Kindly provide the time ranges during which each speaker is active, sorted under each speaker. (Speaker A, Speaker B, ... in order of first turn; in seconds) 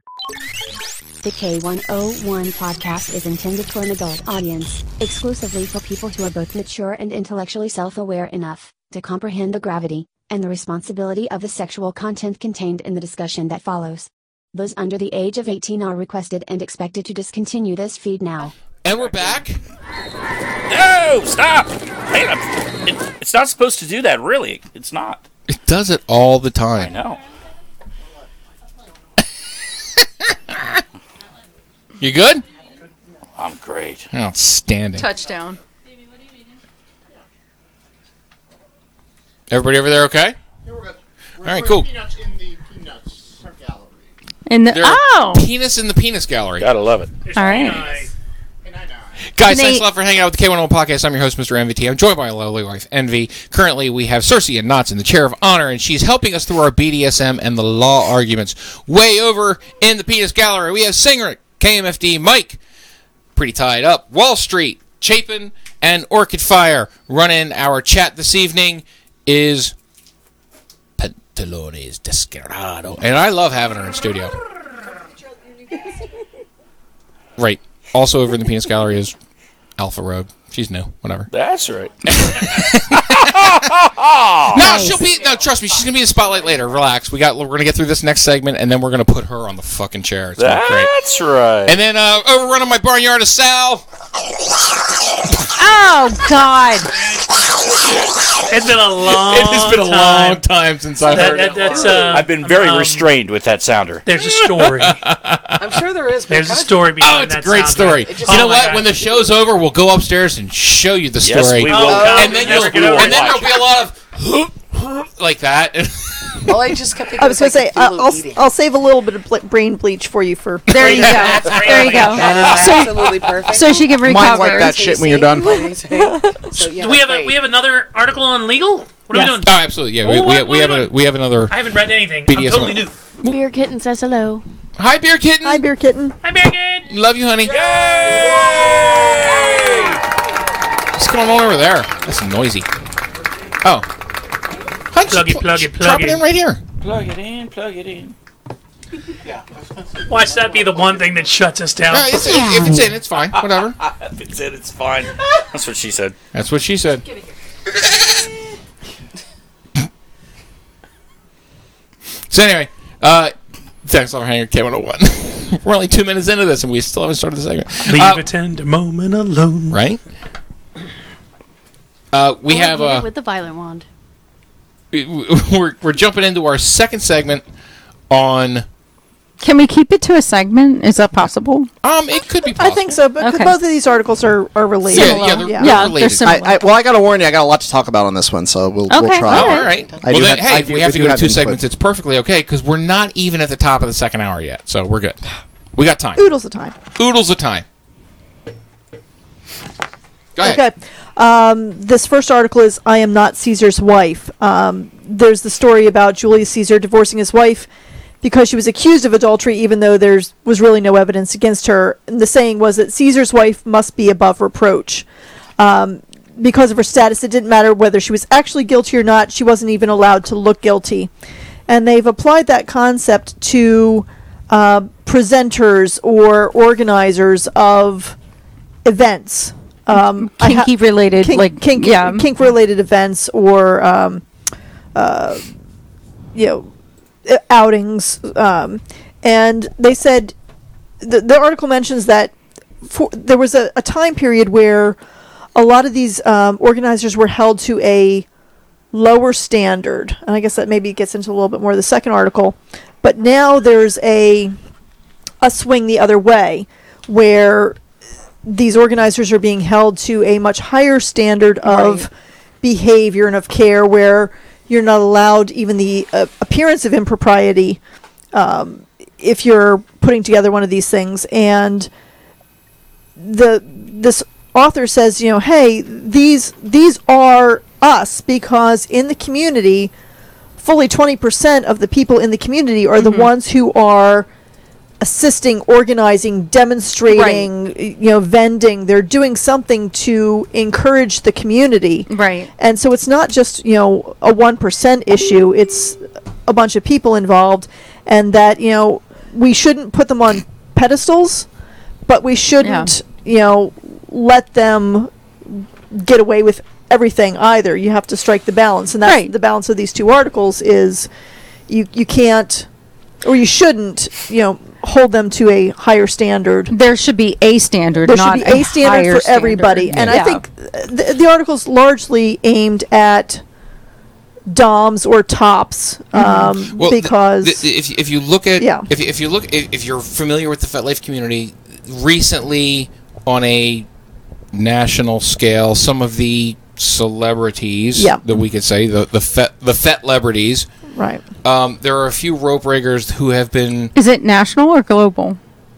Speaker A: 1.2-18.5
Speaker B: 18.8-19.6, 25.5-26.9, 30.0-30.8, 32.0-32.4, 34.1-35.1, 39.5-40.4, 41.4-42.0, 44.7-46.7, 49.4-62.6, 63.3-69.7, 71.0-74.3, 77.4-79.1, 79.8-81.3, 82.1-83.5, 84.5-90.9, 91.7-93.8, 99.1-102.0, 104.2-105.8, 107.0-116.8, 129.3-131.7, 132.2-133.3, 134.8-135.7, 136.9-137.6, 140.9-142.7, 144.9-146.6, 151.9-153.8, 156.3-157.0, 162.3-163.3, 163.8-168.2, 169.7-170.0, 172.1-173.1, 174.9-177.4, 178.1-178.7, 181.8-183.0, 184.9-186.2, 189.3-195.2, 195.8-196.2, 197.0-197.6, 200.3-200.6, 326.8-333.9, 334.5-340.7, 341.4-343.9
Speaker C: 20.7-25.2, 26.8-27.2, 33.4-34.1, 46.6-47.1, 81.3-85.0, 90.4-91.8, 102.1-104.1, 111.2-113.5, 137.4-140.0, 146.8-148.1, 153.3-156.2
Speaker D: 35.0-35.6, 44.5-45.5, 47.3-47.8, 49.5-49.8, 95.5-96.9, 120.7-125.0, 179.4-181.7, 183.2-183.5, 184.8-186.6, 188.9-189.7, 229.9-232.2, 261.6-262.1, 283.0-283.3, 287.1-287.5, 292.1-292.5, 302.6-302.9, 309.0-309.3, 316.7-320.4, 326.1-326.5, 343.9-345.4
Speaker E: 47.2-48.1, 98.5-100.4, 101.0-103.1, 104.0-105.0, 106.3-108.9, 111.6-113.3, 120.7-122.5, 126.7-130.9, 131.5-132.9, 136.2-136.9, 145.1-146.2, 150.1-152.4, 167.8-169.8
Speaker F: 101.1-102.2, 105.6-107.0, 108.0-108.8, 111.9-112.3, 116.5-118.5, 120.8-127.4
Speaker G: 117.2-121.4, 125.9-126.4, 135.4-136.2, 182.6-185.9, 196.2-196.8, 200.4-207.7, 208.2-215.0, 215.6-221.1, 221.7-228.2, 228.8-234.2, 234.9-235.5, 236.3-236.7, 237.2-240.3, 241.0-242.3, 242.8-245.0, 245.5-248.2, 248.9-254.5, 255.4-257.8, 258.4-262.1, 262.6-267.8, 268.3-271.9, 273.2-279.9, 280.6-284.3, 285.0-301.5, 302.1-311.1, 311.7-312.6, 313.2-316.7, 318.1-323.4, 324.5-327.6, 328.6-328.9, 340.9-341.2
Speaker H: 124.0-125.7, 186.2-191.6
Speaker I: 133.2-134.4, 172.5-173.9